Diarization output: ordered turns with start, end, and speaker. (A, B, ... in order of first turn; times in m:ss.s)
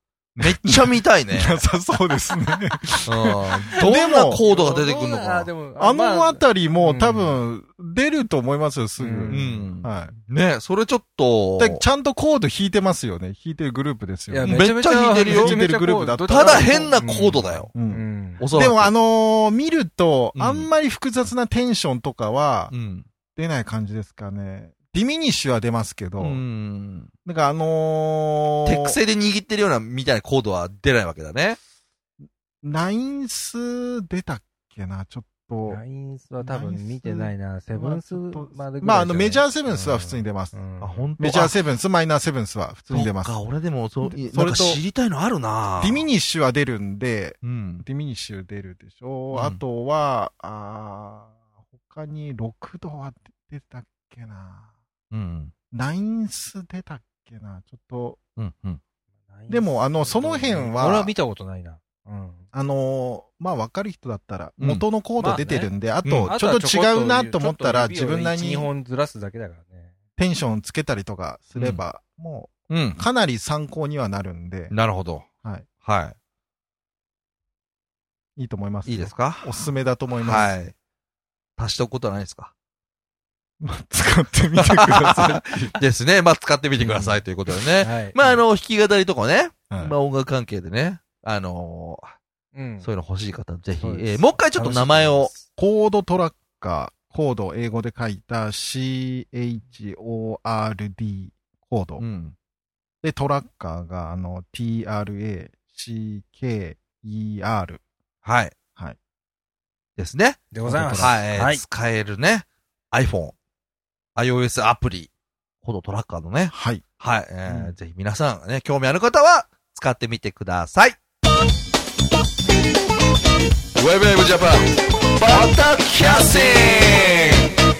0:00.4-0:04.4 A
0:00.4-0:01.5 B
0:03.0-0:05.5 B
0:03.8-0:07.4 C
0:05.8-0:10.1 A
0:09.0-0:09.7 C
0:09.3-0:11.8 B
0:11.6-0:14.6 A
0:14.3-0:18.4 C
0:14.4-0:15.6 B
0:15.2-0:16.4 A
0:16.2-0:17.7 B
0:17.7-0:22.7 A
0:18.4-0:18.9 B
0:20.3-0:20.7 B
0:22.7-0:23.0 B
0:23.4-0:26.4 A
0:26.2-0:27.1 B
0:27.2-0:29.0 A
0:28.6-0:31.6 B
0:32.6-0:35.8 A
0:35.7-0:41.1 C
0:36.4-0:40.6 A
0:40.8-0:41.6 B
0:41.2-0:43.4 A
0:42.9-0:46.1 B
0:44.0-0:44.8 A
0:45.8-0:54.7 A
0:47.4-0:47.8 B
0:49.3-0:49.6 B
0:55.1-0:55.5 B
0:55.7-0:58.2 A
0:58.4-0:58.8 B
0:59.3-1:02.4 C
0:59.5-1:01.1 A
1:02.5-1:08.7 A
1:04.6-1:04.8 B
1:05.2-1:05.7 C
1:06.0-1:06.3 B
1:06.2-1:09.9 C
1:10.2-1:14.7 A
1:11.5-1:11.8 B
1:12.7-1:13.0 B
1:14.7-1:15.2 B
1:15.8-1:16.1 B
1:18.4-1:20.7 A
1:18.8-1:20.7 B
1:21.6-1:22.5 B
1:23.6-1:25.8 A
1:24.6-1:32.1 B
1:26.8-1:27.2 A
1:26.9-1:27.2 C
1:27.8-1:28.2 C
1:29.7-1:29.9 A
1:32.5-1:32.9 C
1:32.8-1:35.3 B
1:33.8-1:35.4 C
1:34.6-1:34.9 A
1:35.5-1:42.0 A
1:42.0-1:42.3 B
1:43.0-1:47.8 A
1:48.2-1:48.5 B
1:50.0-1:50.4 B
1:50.5-1:51.6 C
1:50.6-1:51.2 A
1:51.0-1:53.3 B
1:54.2-1:55.1 B
1:55.6-2:01.0 B
1:56.5-1:56.8 A
1:57.5-1:57.7 C
2:03.8-2:07.5 B